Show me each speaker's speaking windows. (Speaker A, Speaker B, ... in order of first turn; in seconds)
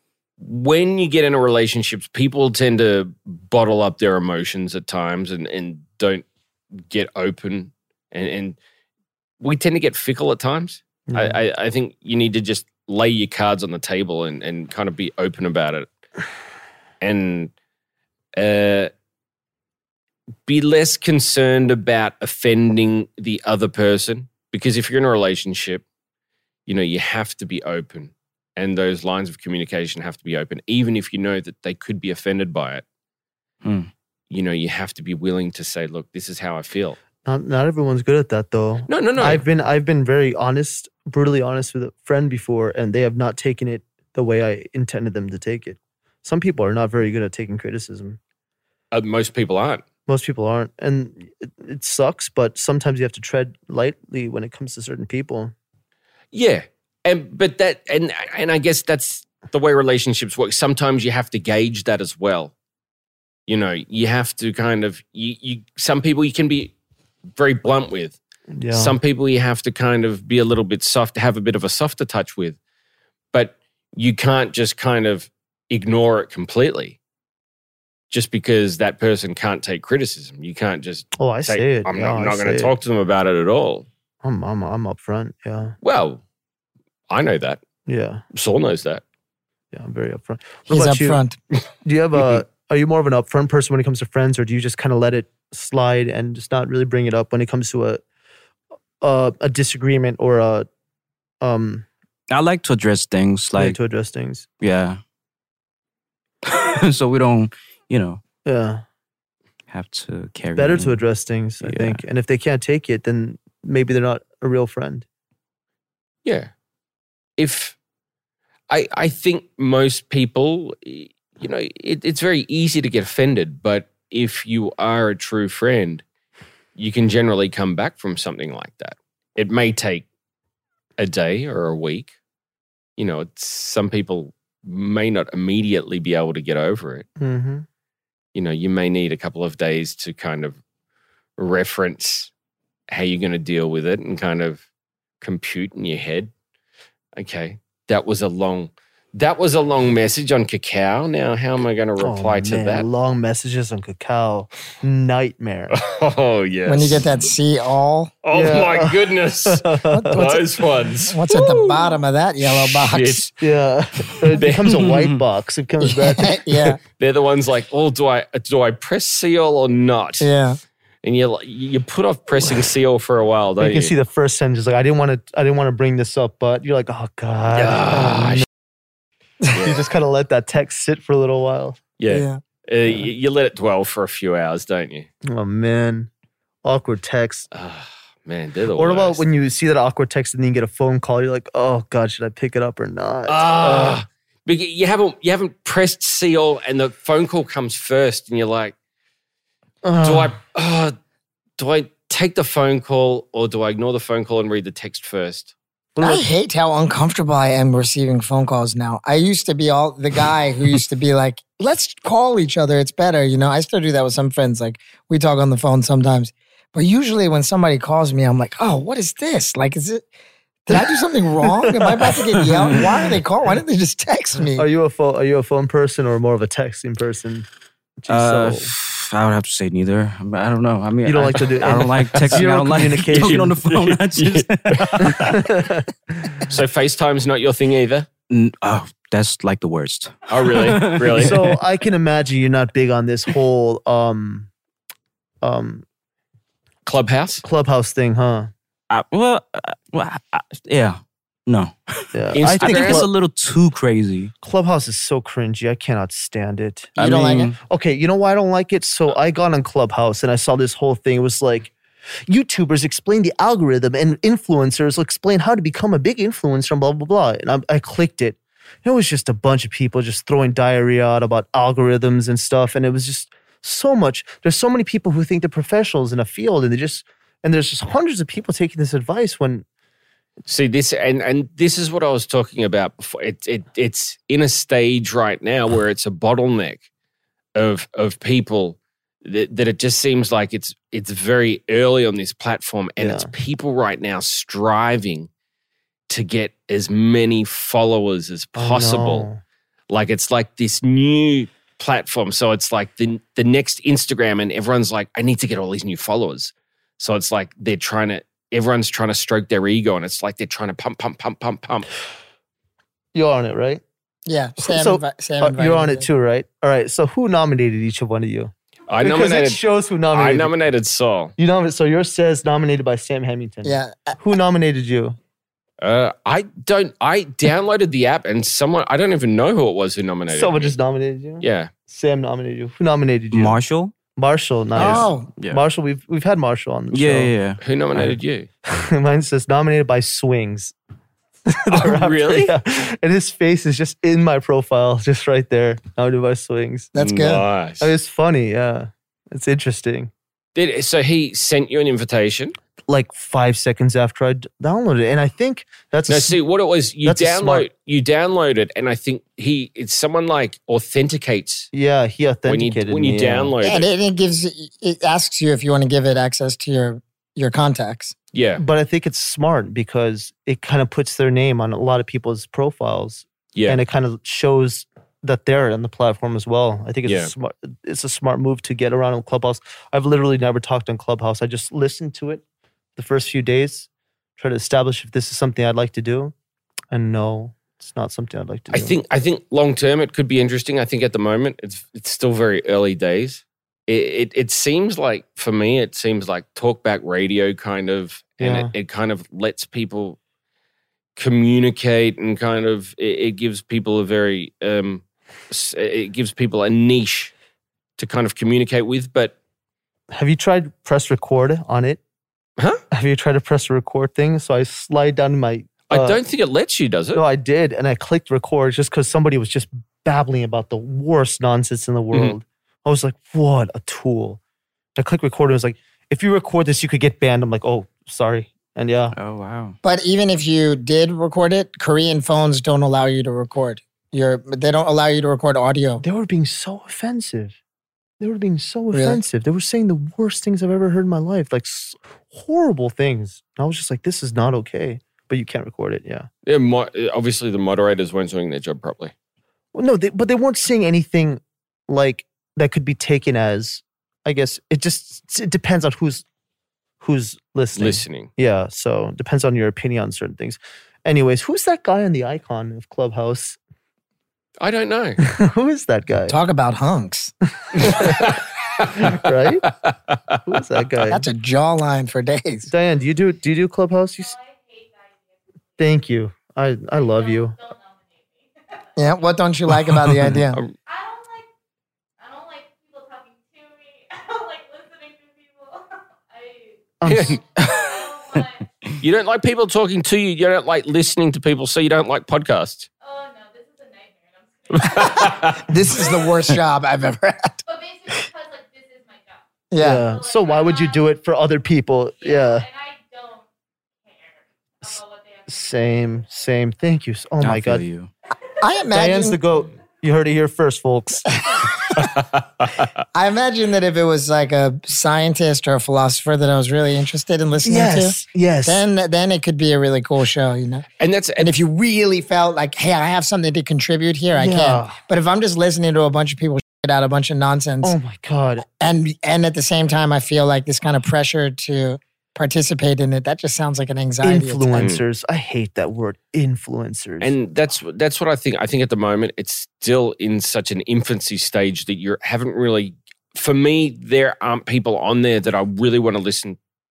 Speaker A: 0.4-6.2, 6.8-8.6, 9.4-15.9, 17.0-17.5, 18.3-18.9, 20.5-25.8, 26.7-32.9, 34.3-37.0, 38.9-39.4, 48.9-49.8, 56.3-62.5, 63.5-66.7, 67.3-68.2, 68.7-72.6, 73.3-77.0, 78.1-83.9, 85.8-86.2, 87.1-87.6, 88.3-89.0, 116.2-116.5, 117.4-117.8, 118.7-126.0, 126.8-130.1, 131.0-132.1, 133.0-137.1, 138.3-140.6, 141.4-142.3, 142.9-144.7, 145.2-146.3, 147.2-152.9, 155.7-157.3, 158.2-163.3, 164.4-164.9, 167.0-170.3, 171.0-173.9, 177.5-178.5, 179.5-179.8, 182.0-185.1, 187.5-189.2, 193.3-198.8, 200.0-201.0, 201.6-205.5, 232.2-232.5, 233.1-235.4, 236.4-238.1, 240.3-241.4, 246.9-247.4, 252.3-253.1, 280.5-286.8, 287.6-295.3, 296.1-299.3, 299.9-311.9, 318.9-321.3, 325.8-330.8, 331.4-331.7, 337.6-338.5, 341.7-342.6, 347.0-347.9, 350.6-352.6, 356.1-361.7, 362.5-363.9, 368.3-368.6, 373.6-373.8, 377.1-377.3, 388.7-400.2, 401.2-407.3, 408.0-409.4, 415.9-417.2, 446.5-449.1, 457.8-458.3, 464.6-465.2, 468.0-470.4, 487.1-487.4, 489.0-492.9, 494.7-495.6, 521.0-521.5, 537.2-546.6
Speaker B: 11.1-11.4, 37.2-48.2, 50.1-55.5, 68.5-69.0, 81.2-82.7, 84.2-85.8, 87.9-88.2, 89.7-91.2, 91.8-98.0, 99.0-100.7, 101.4-101.9, 103.6-104.5, 108.5-108.8, 110.6-115.1, 137.2-137.7, 152.0-155.8, 158.3-160.4, 163.4-166.8, 173.6-178.5, 179.6-181.8, 185.2-186.1, 186.6-187.5, 188.8-194.0, 199.8-200.4, 206.0-206.3, 220.7-222.8, 224.5-227.5, 228.0-228.7, 231.1-233.6, 235.0-236.6, 241.2-244.5, 245.4-245.8, 247.4-248.5, 252.1-253.1, 254.4-257.0, 257.6-261.7, 262.3-279.7, 293.0-293.3, 298.6-299.4, 313.1-313.8, 314.6-320.5, 321.4-325.2, 330.3-333.6, 334.2-337.3, 338.6-340.8, 341.5-346.9, 347.8-350.1, 352.9-356.4, 357.0-357.7, 361.7-363.6, 368.6-382.4, 383.0-386.3, 386.9-389.0, 398.4-398.7, 410.1-412.0, 412.9-416.2, 417.1-424.4, 425.0-429.1, 436.0-437.6, 438.2-446.3, 449.7-456.2, 457.0-463.6, 465.2-466.4, 467.6-468.4, 469.0-469.7, 470.4-471.3, 472.7-474.3, 475.8-477.6, 487.0-487.4, 499.8-502.7, 505.5-507.8, 508.9-511.2, 517.6-518.9, 524.3-525.0, 527.8-528.7, 534.2-537.4
Speaker C: 33.6-33.9, 102.3-103.8, 104.6-105.0, 106.5-108.2, 109.7-111.0, 111.6-112.0, 164.8-165.2, 222.6-222.9, 228.1-235.5, 238.3-241.6, 248.9-254.3, 257.0-257.6, 333.3-333.9, 334.8-335.6, 336.9-337.6, 429.1-429.8, 479.9-480.4, 507.4-508.1
Speaker D: 90.7-91.4, 156.7-158.1, 159.9-160.4, 161.0-163.3, 165.8-166.8, 170.2-170.6, 182.1-182.4, 206.0-220.1, 220.7-224.7, 257.0-257.5, 314.3-316.1, 323.6-324.2, 334.8-335.3, 346.9-347.4, 363.6-368.1, 429.8-436.0, 438.9-439.2, 466.3-467.3, 471.1-472.7, 479.0-480.6, 495.7-497.6, 499.7-500.1, 508.6-509.4, 511.3-512.1, 513.1-520.9, 521.4-528.0, 528.8-534.9
Speaker E: 474.1-476.0, 476.8-479.3, 480.9-481.5, 482.2-488.7, 493.0-496.3, 497.7-501.2, 502.1-503.5, 504.0-506.6